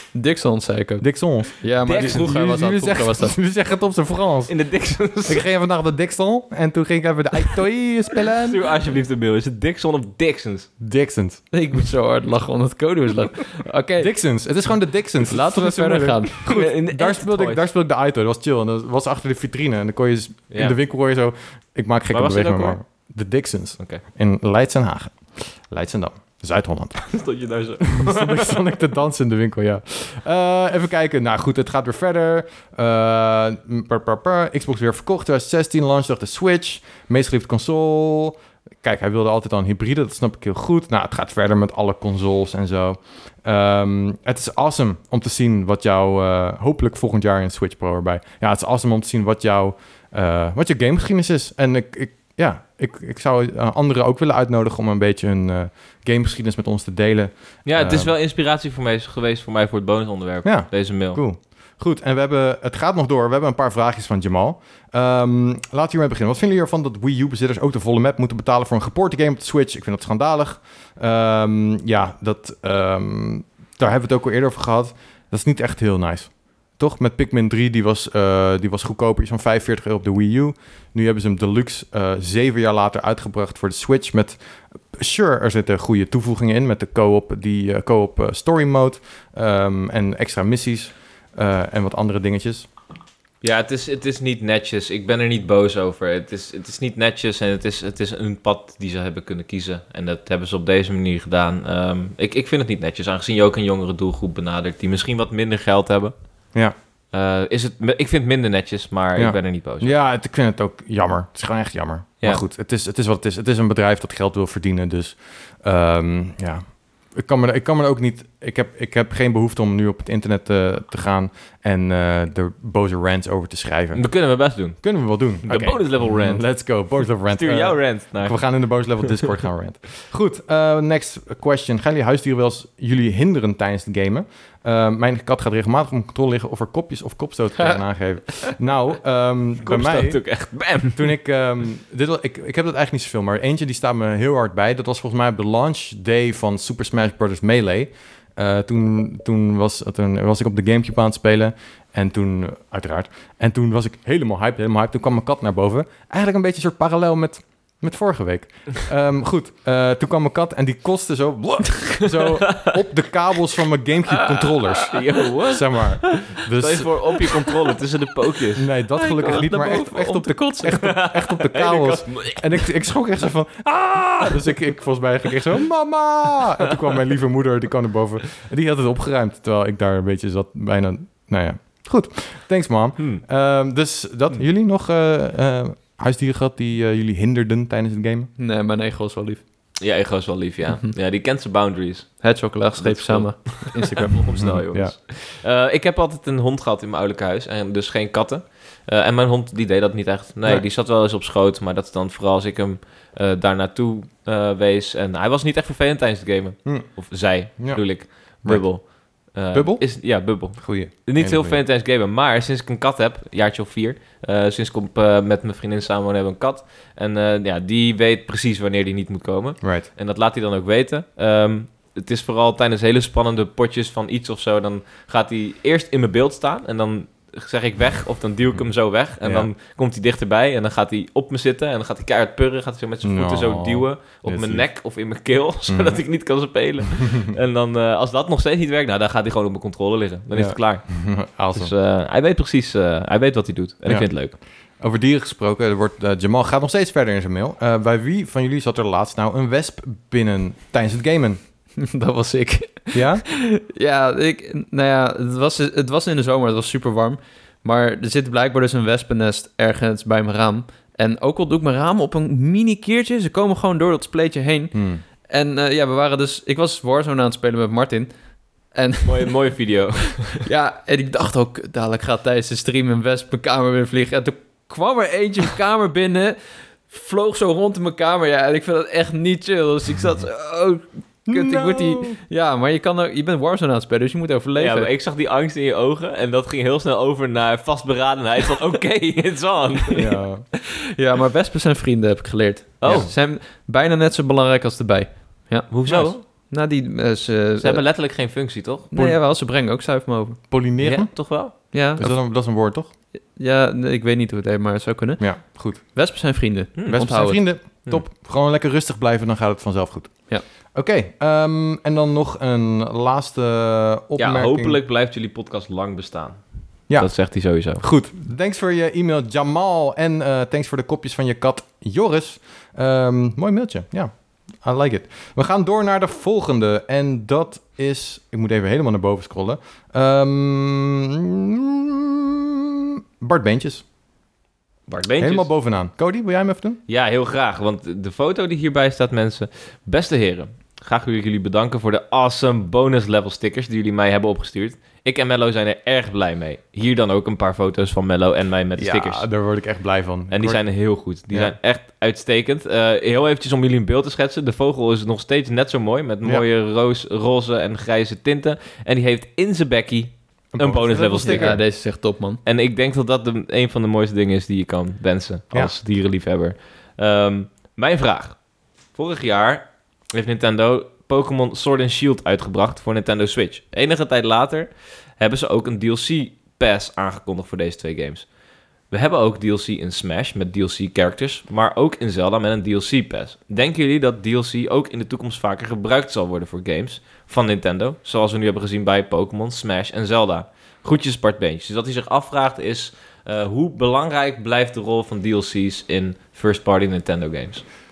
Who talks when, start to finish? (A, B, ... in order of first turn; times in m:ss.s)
0:00.1-0:01.0 A
0:01.0-0:04.5 B
0:01.6-0:03.4 A
0:01.8-0:02.4 C
0:04.5-0:05.4 C
0:05.2-0:08.6 B
0:08.2-0:10.7 C
0:10.8-0:11.4 B
0:11.5-0:14.1 A
0:14.0-0:27.2 B
0:15.2-0:16.4 A
0:16.4-0:17.6 C
0:20.5-0:20.8 C
0:22.1-0:22.8 C
0:27.1-0:28.6 C
0:27.8-0:58.1 B
0:57.6-1:01.2 C
1:00.4-1:24.4 B
1:24.9-1:32.7 B
1:33.4-1:46.1 C
1:47.1-1:49.9 C
1:49.2-2:04.0 B
2:03.9-2:09.3 C
2:04.8-2:20.3 B
2:19.6-2:21.1 C
2:20.9-2:47.0 B
2:41.9-2:42.8 C
2:44.8-2:48.7 C
2:48.6-3:08.3 B
2:48.9-2:50.8 A
2:50.8-2:52.7 C
3:08.4-3:09.4 A
3:09.8-4:04.4 C
3:12.2-3:14.4 A
3:14.4-3:14.9 B
3:26.6-3:28.9 B
3:29.5-3:31.6 B
3:39.6-3:39.9 B
3:49.2-3:49.5 B
3:53.0-3:54.7 B
3:55.7-3:56.0 B
3:57.0-3:57.3 B
4:00.3-4:01.7 B
4:03.8-4:04.1 B
4:04.8-4:11.4 B
4:11.8-4:28.1 A
4:12.9-4:13.2 B
4:24.7-4:25.0 B
4:28.7-4:29.4 A
4:29.0-4:30.4 C
4:30.4-4:44.9 A
4:41.3-4:42.2 B
4:44.6-4:50.1 C
4:49.9-4:50.4 B
4:50.5-4:57.9 A
4:52.8-4:53.1 C
4:55.7-4:56.2 C
4:55.9-4:56.1 B
4:57.6-4:58.9 C
4:58.9-5:00.4 A
4:58.9-4:59.2 B
5:00.5-5:02.9 B
5:00.8-5:01.5 C
5:01.7-5:02.2 A
5:03.3-5:07.4 A
5:05.2-5:05.8 B
5:06.8-5:07.0 C
5:06.9-5:14.8 B
5:07.6-5:08.0 C
5:14.2-5:17.8 C
5:16.9-5:33.8 B
5:34.9-5:35.5 C
5:35.2-5:36.8 B
5:36.9-5:49.3 C
5:48.8-5:50.6 B
5:50.3-6:01.9 C
5:51.3-5:51.5 B
6:00.5-6:01.6 B
6:01.2-6:02.4 A
6:02.4-6:08.4 C
6:08.9-6:18.3 C
6:18.9-6:37.6 C